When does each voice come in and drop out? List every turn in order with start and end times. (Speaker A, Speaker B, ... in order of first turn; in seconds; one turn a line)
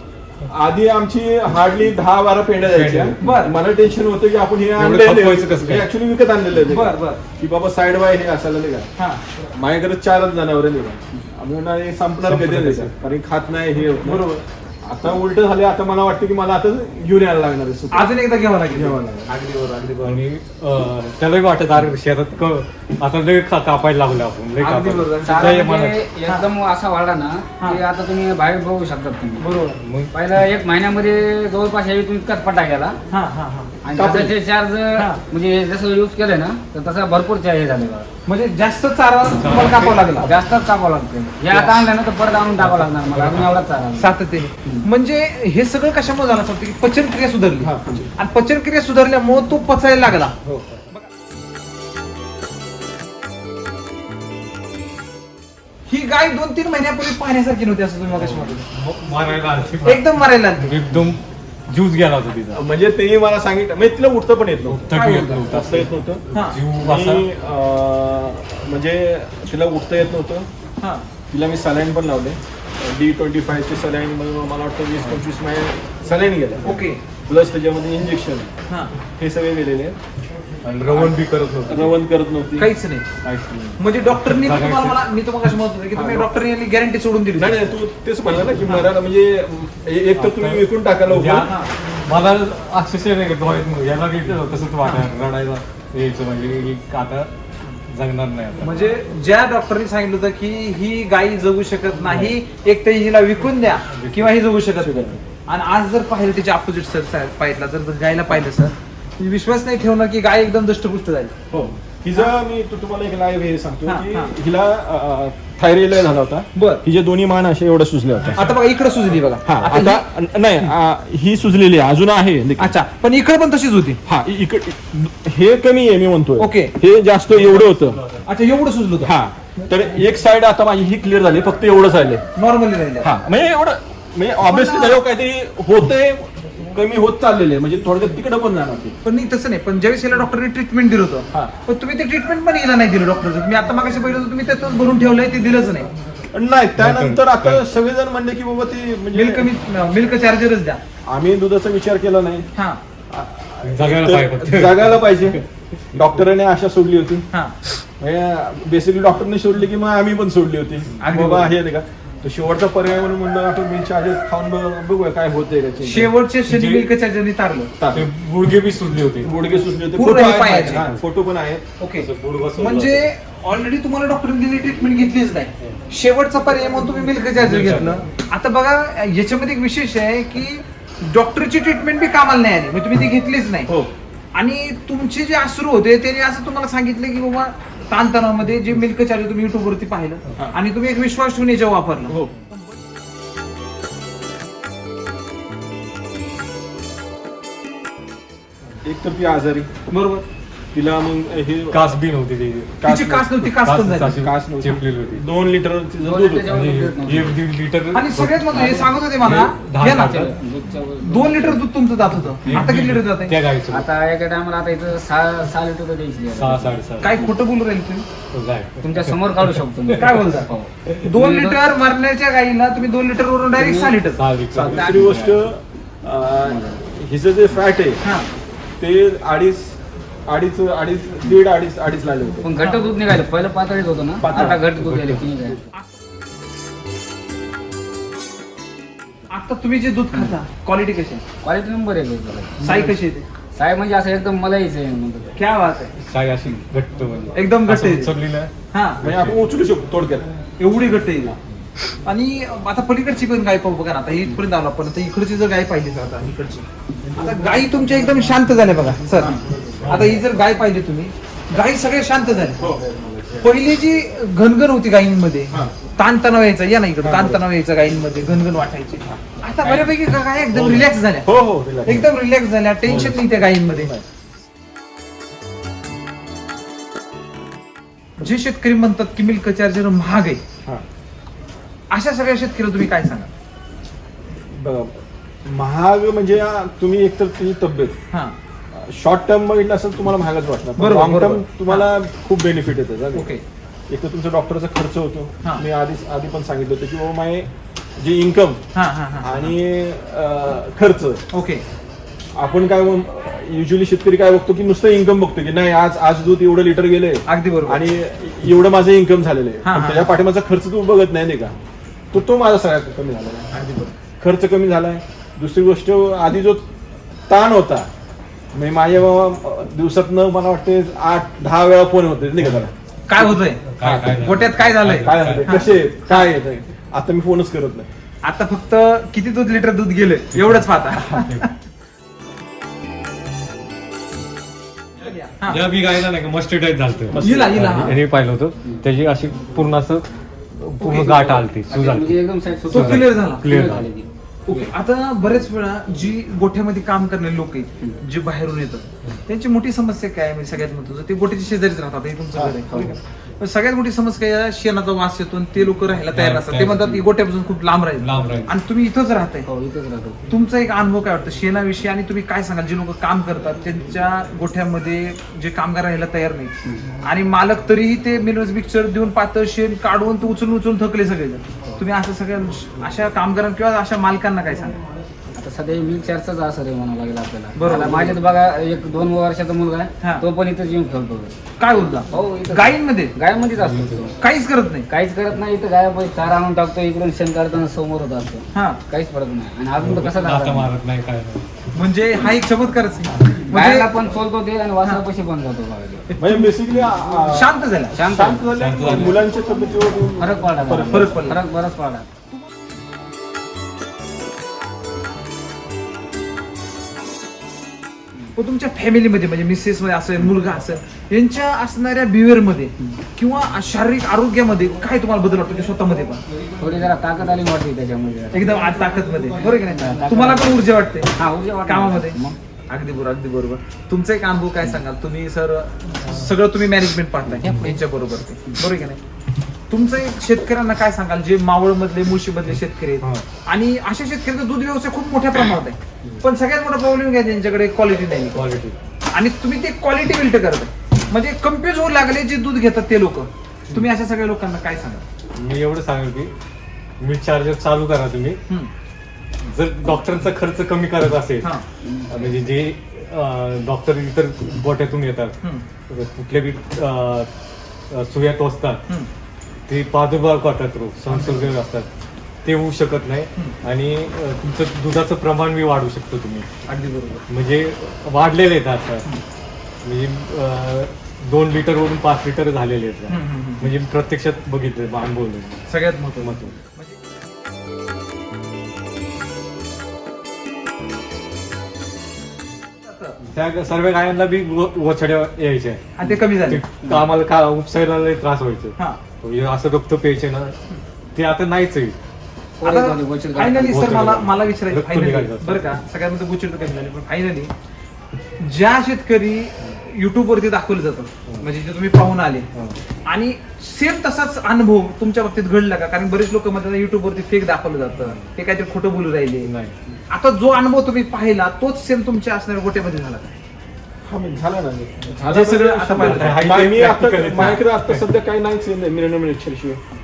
Speaker A: 0.5-8.9
Speaker B: 2.7-3.3
Speaker C: 3.2-3.5
Speaker B: 4.8-5.9
Speaker C: 6.7-7.2
Speaker C: 9.0-9.2
Speaker A: 9.5-18.1
Speaker B: 12.2-12.9
Speaker C: 14.0-14.4
Speaker C: 17.9-20.2
Speaker A: 18.7-19.4
Speaker B: 20.0-26.0
Speaker C: 24.6-25.6
Speaker D: 25.2-29.4
Speaker C: 29.4-29.8
Speaker B: 29.8-30.1
Speaker D: 30.1-33.0
Speaker C: 33.1-34.3
Speaker D: 33.8-38.1
Speaker A: 33.9-34.3
Speaker C: 35.0-35.2
Speaker C: 38.3-40.3
Speaker B: 39.3-40.3
Speaker D: 40.2-44.9
Speaker B: 42.6-43.6
Speaker C: 44.0-50.4
Speaker A: 47.6-48.1
Speaker A: 50.4-50.8
Speaker C: 55.9-58.6
Speaker B: 58.1-62.6
Speaker C: 59.8-60.8
Speaker A: 62.5-64.9
Speaker B: 64.7-67.2
Speaker C: 64.9-65.5
Speaker A: 65.5-70.5
Speaker C: 66.3-66.6
Speaker C: 70.8-71.1
Speaker A: 71.3-78.5
Speaker C: 76.6-77.0
Speaker A: 79.2-80.0
Speaker B: 80.6-82.0
Speaker A: 81.7-82.7
Speaker C: 82.6-83.1
Speaker B: 83.2-85.0
Speaker C: 83.8-87.8
Speaker A: 85.9-86.3
Speaker A: 87.3-91.5
Speaker B: 90.2-97.3
Speaker C: 94.8-95.1
Speaker B: 97.8-98.9
Speaker C: 98.6-111.3
Speaker B: 102.1-102.3
Speaker B: 103.9-104.4
Speaker A: 104.8-105.2
Speaker A: 111.5-118.5
Speaker C: 113.9-114.3
Speaker C: 116.5-116.8
Speaker C: 118.3-120.0
Speaker A: 119.4-122.7
Speaker C: 122.6-124.0
Speaker A: 124.0-128.0
Speaker C: 126.4-126.7
Speaker B: 127.3-128.3
Speaker C: 128.2-129.1
Speaker A: 129.0-132.2
Speaker C: 132.3-133.1
Speaker A: 133.0-139.0
Speaker C: 134.4-135.0
Speaker C: 139.0-145.9
Speaker A: 146.3-149.5
Speaker B: 146.8-147.6
Speaker C: 149.1-150.8
Speaker A: 151.1-152.5
Speaker C: 152.6-152.8
Speaker A: 153.1-157.3
Speaker B: 153.6-155.0
Speaker A: 158.0-166.1
Speaker C: 161.0-161.5
Speaker C: 165.8-167.7
Speaker B: 166.5-166.9
Speaker A: 167.8-168.1
Speaker B: 167.9-169.3
Speaker A: 169.2-171.7
Speaker C: 169.9-170.9
Speaker C: 171.8-183.7
Speaker B: 172.0-173.1
Speaker B: 177.4-178.1
Speaker A: 183.7-183.9
Speaker C: 184.3-192.2
Speaker A: 198.8-199.7
Speaker C: 199.9-200.2
Speaker A: 200.7-201.9
Speaker B: 201.7-202.8
Speaker A: 202.8-203.5
Speaker C: 202.8-204.2
Speaker B: 203.5-205.2
Speaker A: 204.2-206.5
Speaker D: 206.0-207.4
Speaker B: 206.4-210.3
Speaker C: 207.9-210.3
Speaker D: 208.5-208.9
Speaker D: 210.0-211.6
Speaker C: 211.0-213.3
Speaker B: 212.4-213.8
Speaker D: 213.7-217.3
Speaker B: 216.3-217.2
Speaker C: 217.0-218.1
Speaker B: 218.3-220.2
Speaker D: 218.8-221.6
Speaker C: 219.9-224.2
Speaker D: 223.6-223.9
Speaker B: 224.1-225.4
Speaker A: 224.5-228.0
Speaker D: 226.5-226.8
Speaker C: 228.0-228.3
Speaker A: 228.8-232.5
Speaker D: 232.4-235.6
Speaker A: 234.2-235.2
Speaker C: 234.3-234.6
Speaker C: 239.3-241.2
Speaker D: 241.4-242.9
Speaker C: 242.6-243.3
Speaker D: 243.5-245.3
Speaker C: 245.3-245.9
Speaker B: 246.0-249.4
Speaker C: 247.3-248.1
Speaker C: 248.7-249.0
Speaker A: 249.0-250.3
Speaker C: 250.6-251.3
Speaker C: 252.0-262.8
Speaker B: 259.7-260.3
Speaker A: 262.6-263.3
Speaker C: 263.4-273.9
Speaker A: 267.0-267.4
Speaker A: 270.5-272.1
Speaker B: 272.9-273.1
Speaker A: 272.9-274.1
Speaker C: 278.2-280.4
Speaker C: 281.9-283.3
Speaker A: 284.5-288.0
Speaker A: 288.7-293.3
Speaker C: 290.8-291.9
Speaker C: 293.1-293.4
Speaker A: 293.9-298.6
Speaker C: 298.7-299.5
Speaker A: 299.2-301.2
Speaker C: 301.3-301.6
Speaker A: 302.4-311.6
Speaker C: 307.3-307.8
Speaker C: 309.6-310.1
Speaker A: 312.1-313.5
Speaker C: 313.5-313.9
Speaker A: 314.2-316.6
Speaker A: 317.3-317.9
Speaker A: 318.5-322.7
Speaker C: 323.1-323.7
Speaker B: 323.6-325.7
Speaker A: 323.8-324.2
Speaker C: 324.2-326.3
Speaker A: 325.0-327.9
Speaker C: 328.2-331.5
Speaker B: 330.3-331.5
Speaker C: 335.0-335.6
Speaker B: 335.5-343.9
Speaker A: 337.1-337.9
Speaker C: 337.2-338.0
Speaker C: 340.8-341.4
Speaker D: 341.6-344.1
Speaker C: 342.6-343.5
Speaker C: 344.5-359.5
Speaker A: 352.3-352.9
Speaker B: 356.1-356.9
Speaker D: 356.7-357.0
Speaker B: 358.0-358.6
Speaker D: 359.4-360.2
Speaker C: 360.3-374.8
Speaker D: 375.3-381.4
Speaker C: 377.5-378.2
Speaker C: 380.0-380.2
Speaker C: 381.6-383.1
Speaker D: 382.1-384.1
Speaker B: 383.6-384.0
Speaker C: 384.2-384.9
Speaker D: 384.9-390.7
Speaker C: 388.5-388.8
Speaker B: 389.8-391.6
Speaker C: 391.7-393.9
Speaker D: 393.3-396.1
Speaker C: 396.1-396.5
Speaker A: 396.2-401.2
Speaker C: 397.3-397.9
Speaker D: 397.9-399.1
Speaker B: 398.5-399.2
Speaker D: 400.2-402.1
Speaker C: 400.9-401.4
Speaker C: 408.4-416.2
Speaker D: 416.6-418.6
Speaker C: 418.3-421.1
Speaker D: 419.7-422.4
Speaker C: 421.6-422.2
Speaker C: 422.7-429.0
Speaker B: 427.4-427.7
Speaker C: 429.7-438.4
Speaker B: 438.3-438.8
Speaker C: 439.1-445.0
Speaker B: 445.3-446.3
Speaker B: 447.0-448.4
Speaker B: 449.4-451.5
Speaker D: 451.8-452.4
Speaker B: 452.1-455.4
Speaker B: 455.9-457.3
Speaker B: 457.9-458.8
Speaker B: 459.7-461.9
Speaker C: 461.1-461.5
Speaker B: 462.4-466.5
Speaker C: 466.7-467.2
Speaker B: 467.3-469.1
Speaker B: 469.8-476.6
Speaker C: 473.1-473.7
Speaker C: 475.7-477.0
Speaker C: 482.8-483.2
Speaker B: 483.2-490.6
Speaker C: 485.9-486.7
Speaker B: 491.1-491.9
Speaker D: 492.6-494.0
Speaker C: 492.6-497.5
Speaker B: 493.6-495.8
Speaker C: 498.4-502.5
Speaker C: 503.1-509.5
Speaker B: 508.0-508.3
Speaker B: 509.4-509.8
Speaker C: 510.1-513.3
Speaker A: 514.0-519.8
Speaker C: 515.3-516.6
Speaker B: 515.9-518.1
Speaker C: 517.3-517.6